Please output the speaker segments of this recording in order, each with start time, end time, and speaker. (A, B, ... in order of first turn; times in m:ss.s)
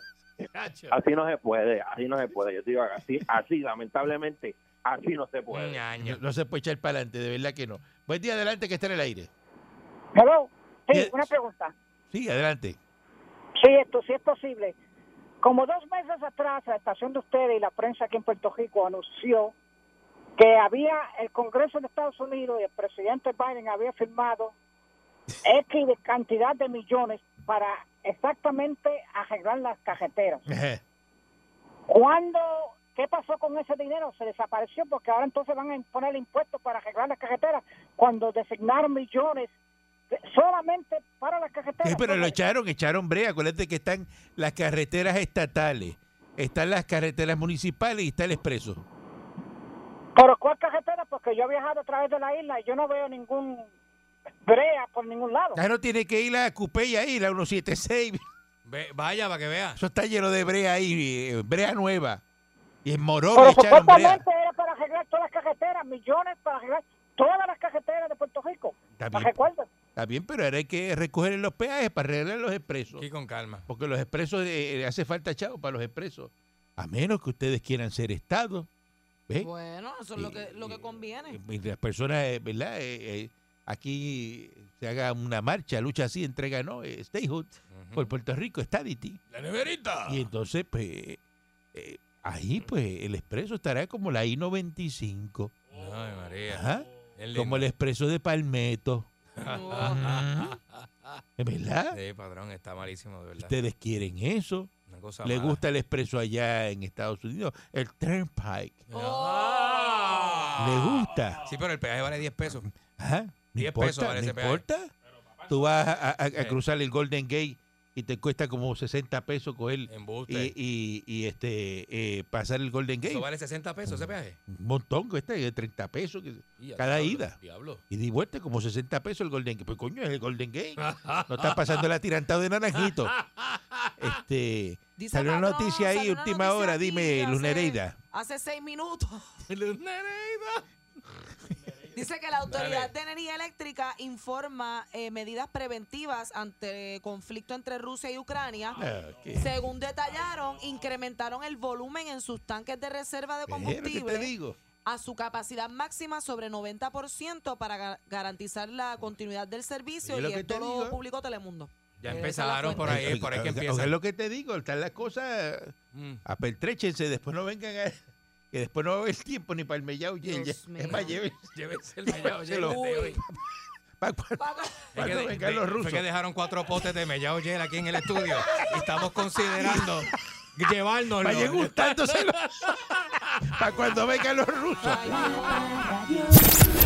0:00.5-0:01.0 A
0:00.9-0:05.8 B
0:05.5-0:06.2 A
0:06.0-0:09.3 C
0:10.2-0:11.7 D
0:10.9-0:11.3 C
0:12.1-0:12.8 C
0:13.6-0:14.8 D
0:15.4-0:19.5 D
0:20.4-0:24.6 D
0:25.4-0:30.4 D
0:30.5-0:30.8 C
0:31.9-0:39.5 D
0:40.1-0:42.4 D
0:41.8-0:48.8 C
0:50.2-0:53.7 D
0:54.4-0:55.6 D
0:55.6-0:58.2 C
0:58.6-0:59.8 A
0:59.8-1:02.2 C
1:02.8-1:04.2 C
1:03.4-1:09.7 D
1:09.0-1:09.4 C
1:10.0-1:13.0 C
1:13.0-1:13.7 A
1:13.7-1:18.7 C
1:19.4-1:21.4 E
1:20.2-1:29.2 C
1:27.7-1:28.1 A
1:29.3-1:30.3 A
1:30.1-1:31.2 C
1:31.7-1:35.6 C
1:35.7-1:37.7 A
1:36.5-1:39.1 C
1:39.4-1:41.2 A
1:39.4-1:40.0 E
1:39.7-1:40.6 C
1:41.4-1:42.0 C
1:41.9-1:43.5 A
1:43.4-1:44.7 C
1:44.9-1:45.6 A
1:45.2-1:48.8 C
1:48.9-1:52.7 A
1:48.9-1:50.5 E
1:50.6-1:51.5 C
1:52.9-1:54.9 C
1:53.6-1:54.6 A
1:55.5-2:03.3 C
1:59.9-2:00.5 A
2:03.1-2:04.4 A
2:03.9-2:07.4 C
2:06.6-2:07.8 A
2:07.9-2:13.2 C
2:10.8-2:11.8 A
2:12.8-2:14.1 A
2:14.0-2:18.0 C
2:15.0-2:19.3 E
2:19.5-2:20.6 A
2:21.9-2:28.8 E
2:22.5-2:22.9 A
2:28.8-2:29.6 C
2:29.3-2:34.3 E
2:33.5-2:34.6 C
2:34.8-2:43.1 E
2:40.0-2:41.0 C
2:42.0-2:43.9 A
2:42.8-2:48.0 C
2:45.9-2:46.2 A
2:48.5-2:51.5 C
2:50.2-2:51.2 E
2:50.8-2:53.2 A
2:52.1-2:53.4 C
2:52.7-2:53.2 E
2:54.0-2:56.1 C
2:54.4-2:54.8 E
2:55.0-3:03.6 A
2:59.6-3:00.0 C
3:01.2-3:02.8 C
3:03.5-3:05.2 C
3:04.8-3:06.4 E